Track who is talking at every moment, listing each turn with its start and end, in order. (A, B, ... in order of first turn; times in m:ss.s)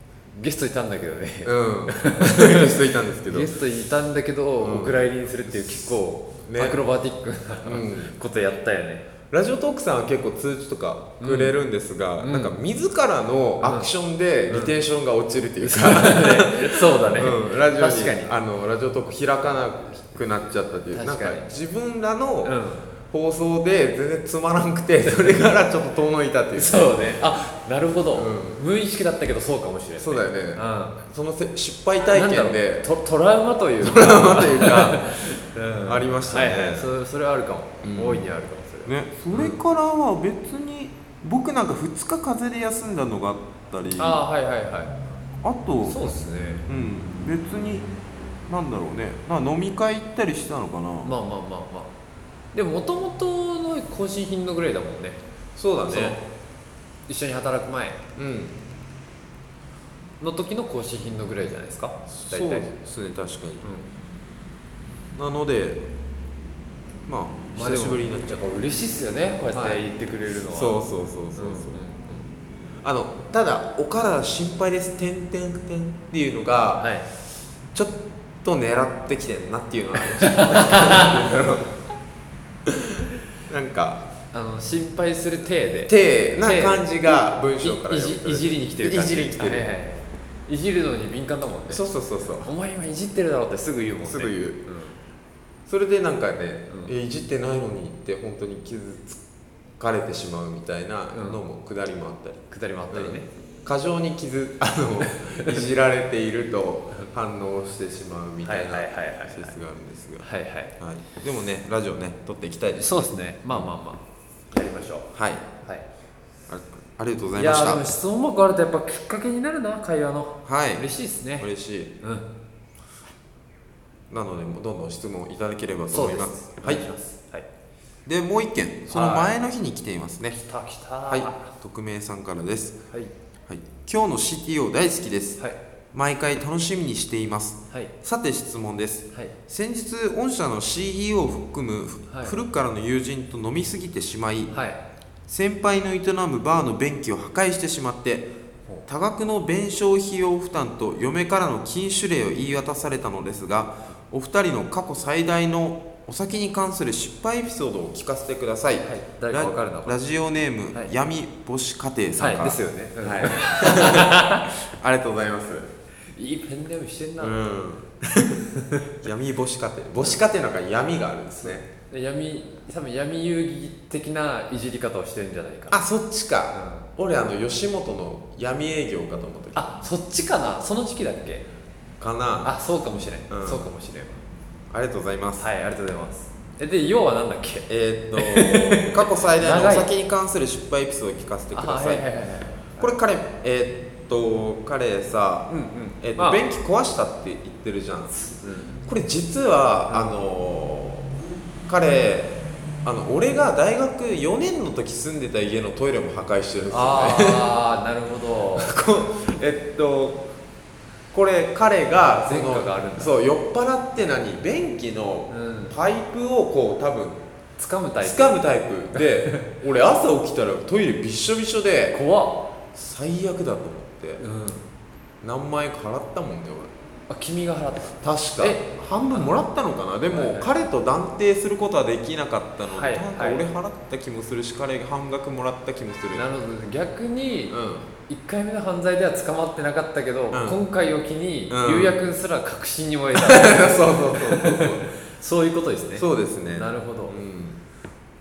0:00.3-0:09.1 A
0:01.4-0:03.5 B
0:04.6-0:06.8 B
0:07.6-0:08.1 B
0:09.3-0:22.6 B
0:11.2-0:11.6 A
0:12.2-0:12.5 A
0:13.6-0:13.9 A
0:14.5-0:14.7 A
0:15.6-0:18.4 A
0:20.9-0:21.4 A
0:22.4-0:22.8 A
0:23.1-0:27.2 B
0:26.5-0:31.0 A
0:28.1-0:28.6 B
0:30.0-0:32.9 B
0:32.1-0:39.6 A
0:33.8-0:36.9 B
0:37.8-0:38.2 B
0:38.8-0:44.2 B
0:44.0-0:44.9 A
0:45.4-0:46.2 B
0:45.8-0:46.7 A
0:46.7-0:47.9 B
0:48.5-0:51.1 B
0:51.0-0:51.9 A
0:52.5-0:55.2 A
0:55.6-0:56.2 B
0:55.9-0:56.2 A
0:57.1-0:58.0 A
0:58.2-0:58.6 B
1:00.2-1:02.7 A
1:02.1-1:03.6 B
1:05.2-1:05.8 B
1:07.1-1:08.4 B
1:07.5-1:10.8 A
1:09.5-1:09.8 B
1:10.5-1:11.8 B
1:11.4-1:12.3 A
1:12.8-1:16.9 B
1:16.8-1:17.1 A
1:17.7-1:21.7 B
1:20.2-1:21.1 A
1:22.7-1:24.0 B
1:24.3-1:31.8 A
1:25.9-1:29.7 B
1:31.7-1:32.5 B
1:32.4-1:35.0 A
1:34.0-1:34.6 B
1:35.6-1:39.2 B
1:39.8-1:50.3 B
1:41.1-1:41.4 A
1:42.5-1:43.3 A
1:45.2-1:45.5 A
1:48.4-1:49.5 A
1:50.2-1:50.7 A
1:50.8-1:53.7 B
1:52.8-1:55.1 A
1:55.1-1:55.5 B
1:56.5-1:57.9 B
1:57.4-2:01.5 A
2:00.4-2:00.8 B
2:01.4-2:01.9 B
2:02.0-2:02.2 A
2:04.1-2:06.8 B
2:05.9-2:07.5 A
2:08.0-2:10.4 B
2:08.9-2:09.4 A
2:10.3-2:11.5 A
2:11.1-2:12.8 B
2:13.5-2:15.4 B
2:15.9-2:24.5 B
2:22.1-2:22.4 A
2:24.5-2:24.8 A
2:25.3-2:28.3 B
2:28.8-2:45.7 B
2:38.8-2:40.0 A
2:42.2-2:44.5 A
2:46.1-2:47.4 A
2:47.2-2:51.6 B
2:51.4-2:55.8 A
2:55.7-2:59.7 B
2:56.5-2:56.9 A
2:59.5-3:01.4 A
3:02.0-3:02.5 B
3:02.4-3:04.2 A
3:03.3-3:03.6 B
3:04.7-3:05.5 B
3:05.4-3:09.9 A
3:07.7-3:12.0 B
3:11.5-3:12.9 A
3:12.8-3:15.5 B
3:15.5-3:16.4 A
3:16.0-3:18.2 B
3:18.2-3:18.8 A
3:18.8-3:21.1 B
3:19.9-3:20.1 A
3:21.7-3:27.5 B
3:26.7-3:28.8 A
3:28.5-3:30.2 B
3:31.1-3:37.2 B
3:32.0-3:33.2 A
3:35.3-3:35.8 A
3:37.6-3:38.4 A
3:38.0-3:42.0 B
3:38.9-3:39.5 A
3:41.9-3:42.5 A
3:42.7-3:44.2 B
3:44.2-3:44.7 A
3:45.2-3:46.7 B
3:47.1-3:49.4 A
3:48.0-3:56.3 B
3:50.1-3:50.5 A
3:52.7-3:53.5 A
3:56.1-4:07.2 A
3:57.5-3:57.9 B
4:00.3-4:00.6 B
4:01.5-4:02.0 B
4:03.1-4:04.9 B
4:06.0-4:07.6 B